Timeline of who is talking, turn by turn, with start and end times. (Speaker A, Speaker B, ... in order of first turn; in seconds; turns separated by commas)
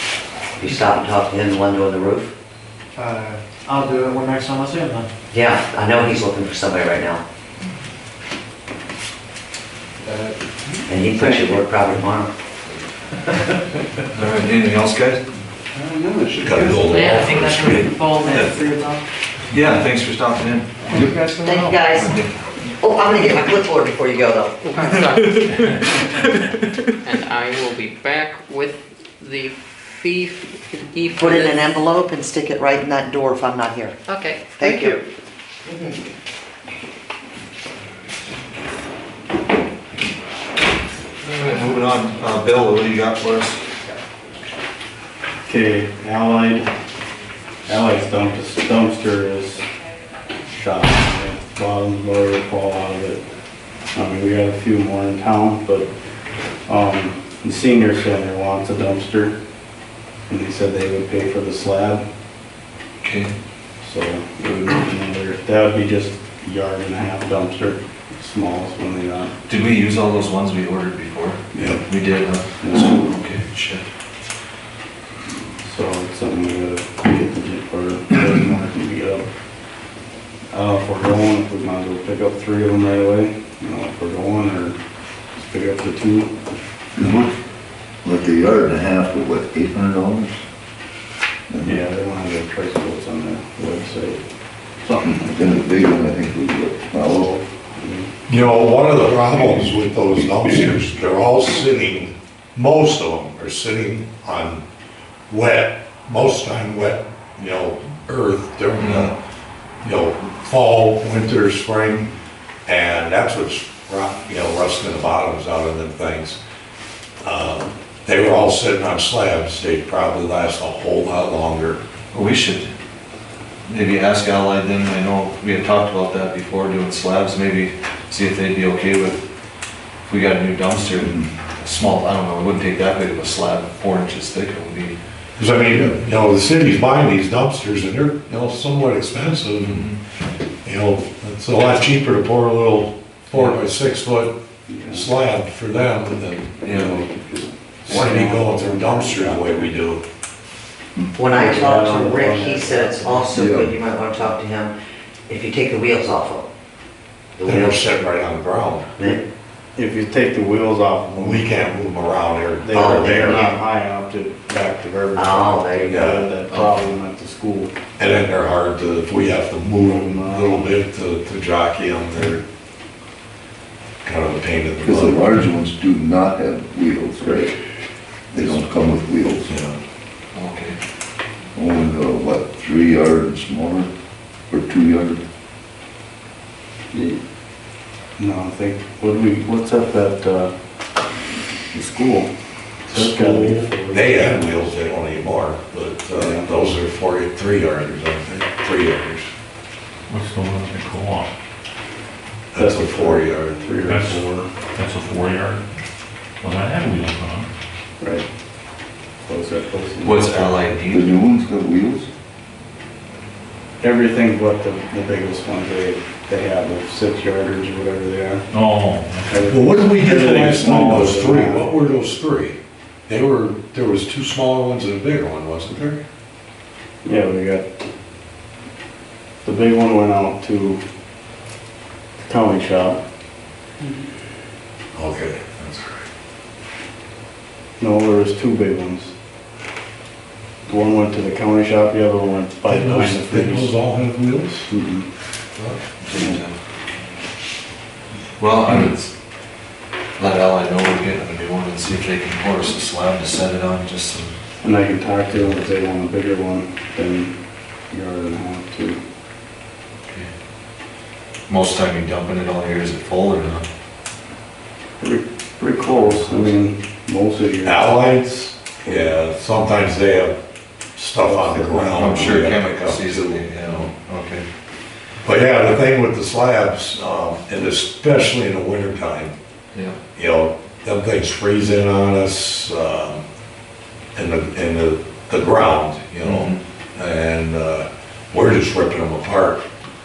Speaker A: 0.6-2.3, Speaker B: 3.0-5.1, Speaker A: 5.3-7.2, Speaker A: 10.9-12.3, Speaker C: 14.1-15.2, Speaker D: 15.8-17.9, Speaker E: 16.9-17.3, Speaker B: 17.1-19.0, Speaker E: 18.0-18.4, Speaker C: 19.5-21.4, Speaker B: 20.9-21.5, Speaker A: 21.4-22.2, Speaker C: 21.9-22.3, Speaker A: 22.8-24.6, Speaker E: 24.6-25.8, Speaker E: 27.0-31.7, Speaker A: 31.1-34.0, Speaker E: 34.0-35.0, Speaker A: 34.5-35.0, Speaker A: 35.7-36.0, Speaker C: 41.2-43.6, Speaker F: 45.5-46.7, Speaker F: 47.7-49.7, Speaker F: 50.5-53.2, Speaker F: 53.9-55.9, Speaker F: 56.7-59.4, Speaker F: 60.3-62.0, Speaker C: 63.0-63.3, Speaker F: 63.8-69.3, Speaker C: 69.5-73.8, Speaker F: 72.6-72.9, Speaker F: 75.6-79.3, Speaker F: 80.5-84.8, Speaker F: 85.3-86.3, Speaker G: 87.0-87.4, Speaker G: 88.0-90.4, Speaker G: 91.5-91.8, Speaker F: 91.6-94.2, Speaker F: 94.8-95.2, Speaker G: 94.9-97.3, Speaker F: 97.0-98.1, Speaker D: 98.3-104.6, Speaker D: 105.3-109.2, Speaker C: 108.8-109.1, Speaker D: 109.8-112.1, Speaker D: 112.7-116.4, Speaker D: 117.2-121.8, Speaker C: 122.1-122.7, Speaker C: 123.7-129.3, Speaker C: 130.0-135.0, Speaker G: 130.9-131.3, Speaker D: 135.4-139.8, Speaker C: 139.6-140.0, Speaker D: 140.6-144.4, Speaker C: 143.3-143.6, Speaker F: 144.7-145.1, Speaker D: 144.9-147.1, Speaker C: 146.6-147.0, Speaker F: 146.8-149.7, Speaker D: 147.8-150.0, Speaker A: 151.1-154.7, Speaker F: 151.3-153.3, Speaker G: 153.3-153.7, Speaker A: 155.3-156.5, Speaker A: 157.4-157.8, Speaker D: 157.4-159.1, Speaker A: 159.0-159.2, Speaker F: 159.8-161.6, Speaker D: 161.2-163.2, Speaker F: 162.6-167.7, Speaker A: 162.7-163.5, Speaker A: 165.1-166.0, Speaker D: 165.9-166.3, Speaker C: 166.5-166.9, Speaker D: 168.0-172.4, Speaker F: 169.8-170.8, Speaker D: 174.0-175.2, Speaker G: 174.8-177.6, Speaker G: 178.3-179.5, Speaker D: 179.4-179.8, Speaker C: 180.3-180.8, Speaker G: 181.5-183.9, Speaker G: 184.5-185.2, Speaker F: 186.9-187.2, Speaker F: 188.2-190.5, Speaker F: 191.7-192.3, Speaker F: 192.8-194.7, Speaker D: 192.9-199.3, Speaker F: 196.1-196.7, Speaker H: 200.1-201.3, Speaker D: 202.5-203.8, Speaker F: 202.5-204.5, Speaker H: 203.8-205.7, Speaker H: 206.4-207.5, Speaker F: 208.0-208.3, Speaker F: 209.2-210.4, Speaker C: 210.0-211.2, Speaker G: 210.8-212.1, Speaker F: 213.8-218.4, Speaker H: 218.5-219.4, Speaker F: 219.3-221.7, Speaker D: 219.5-226.0, Speaker F: 227.0-227.7, Speaker F: 229.4-230.8, Speaker F: 232.3-233.0, Speaker D: 234.9-236.1, Speaker F: 237.8-239.1, Speaker F: 240.7-243.7, Speaker D: 242.7-244.7, Speaker F: 244.7-245.1, Speaker C: 245.6-246.5, Speaker C: 248.4-249.1, Speaker C: 250.2-254.3, Speaker F: 254.6-257.4, Speaker F: 257.9-259.0, Speaker C: 261.5-263.7, Speaker F: 265.0-267.9, Speaker C: 265.9-266.6, Speaker D: 267.6-270.4, Speaker F: 268.8-269.1, Speaker D: 270.9-273.9, Speaker F: 271.2-272.4, Speaker C: 272.0-274.4, Speaker D: 275.2-279.3, Speaker D: 280.1-283.2, Speaker D: 284.1-289.6, Speaker C: 286.2-286.6